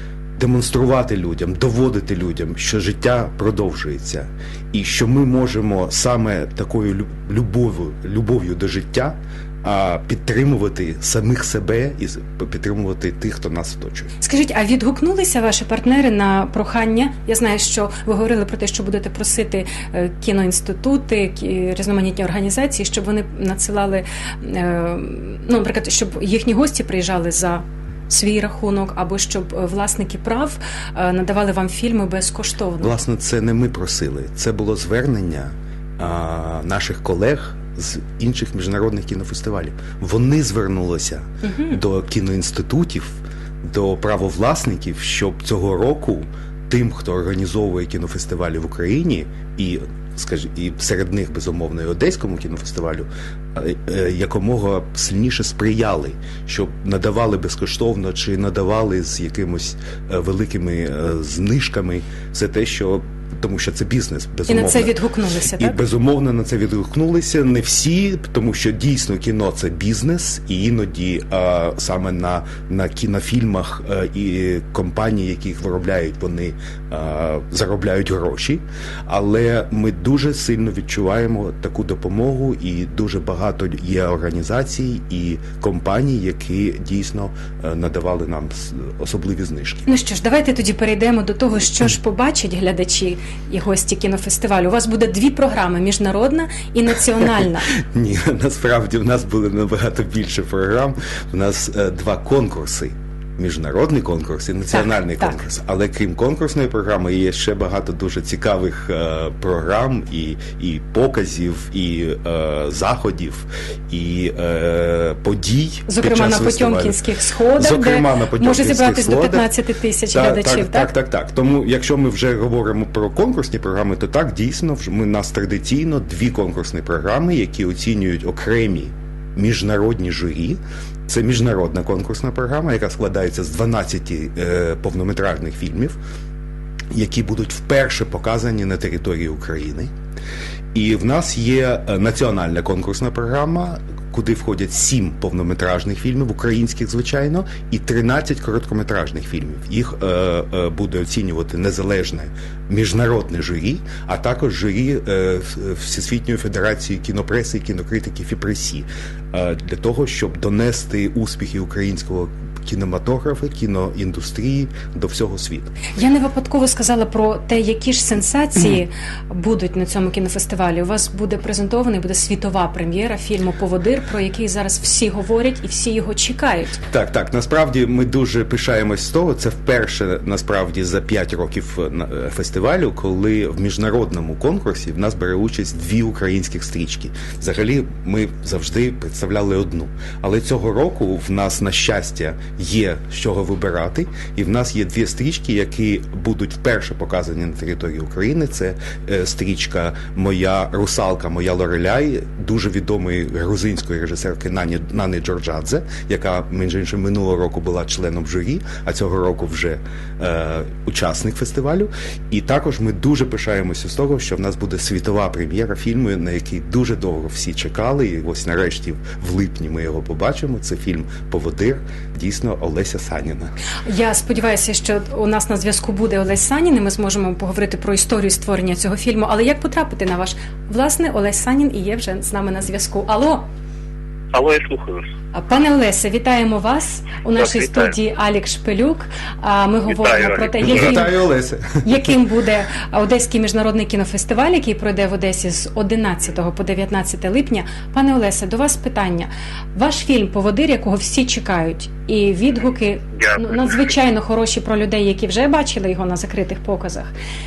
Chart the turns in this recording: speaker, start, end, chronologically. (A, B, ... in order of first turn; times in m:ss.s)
0:00.4-0:14.1 A
0:14.2-0:33.0 B
0:32.8-1:04.9 A
0:41.4-0:41.8 B
1:04.5-1:05.8 B
1:05.5-1:29.9 A
1:29.9-1:37.7 B
1:37.9-1:57.0 A
1:44.7-1:45.3 B
1:55.9-2:00.9 B
1:57.6-1:59.5 A
2:00.1-2:16.0 A
2:16.9-2:19.9 A
2:20.7-2:45.7 A
2:45.9-2:56.8 B
2:56.9-3:43.5 A
3:43.8-3:53.4 B
3:54.3-3:55.1 C
3:55.3-4:01.2 B
3:57.4-3:57.9 C
3:59.8-4:00.9 C
4:00.6-4:01.9 A
4:01.8-4:17.1 B
4:13.2-4:13.7 C